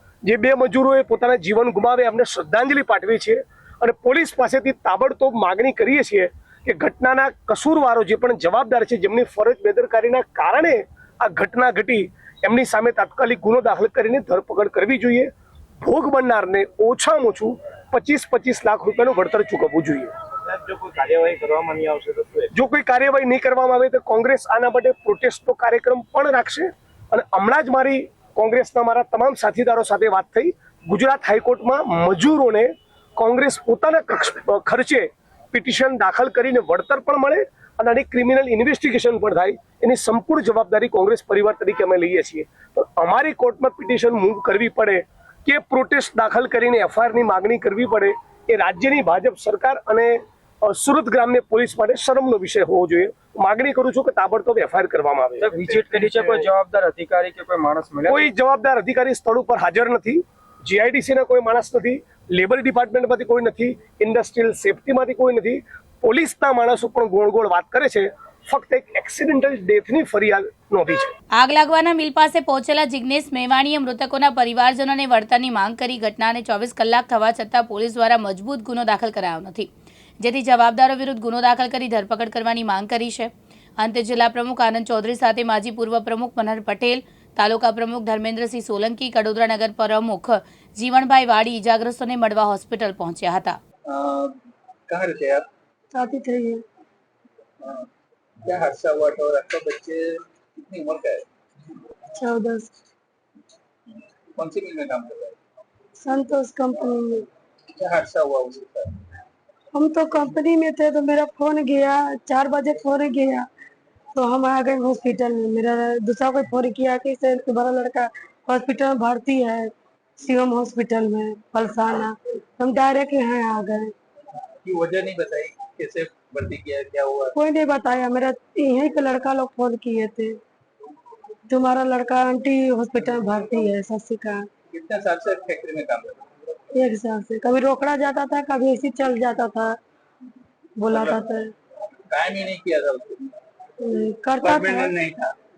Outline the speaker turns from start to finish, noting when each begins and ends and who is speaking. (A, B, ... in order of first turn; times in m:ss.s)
0:00.2-0:15.3 A
0:15.8-0:20.1 A
0:20.9-0:22.3 B
0:22.5-0:56.2 A
0:55.4-0:58.2 B
0:58.1-1:11.1 A
1:11.4-1:19.7 C
1:20.2-1:33.6 C
1:33.9-1:34.4 D
1:34.9-1:35.5 D
1:35.9-1:36.6 E
1:37.6-1:37.9 D
1:38.4-1:41.2 D
1:42.2-1:42.7 E
1:44.4-1:45.4 D
1:46.0-1:47.2 E
1:47.7-1:49.0 D
1:49.7-1:53.5 E
1:54.1-2:03.9 E
2:04.6-2:07.4 D
2:07.4-2:10.4 E
2:11.5-2:14.5 E
2:14.7-2:16.3 D
2:16.7-2:19.8 E
2:20.8-2:21.5 E
2:20.9-2:21.2 D
2:22.1-2:23.4 D
2:23.8-2:24.9 E
2:24.4-2:25.4 D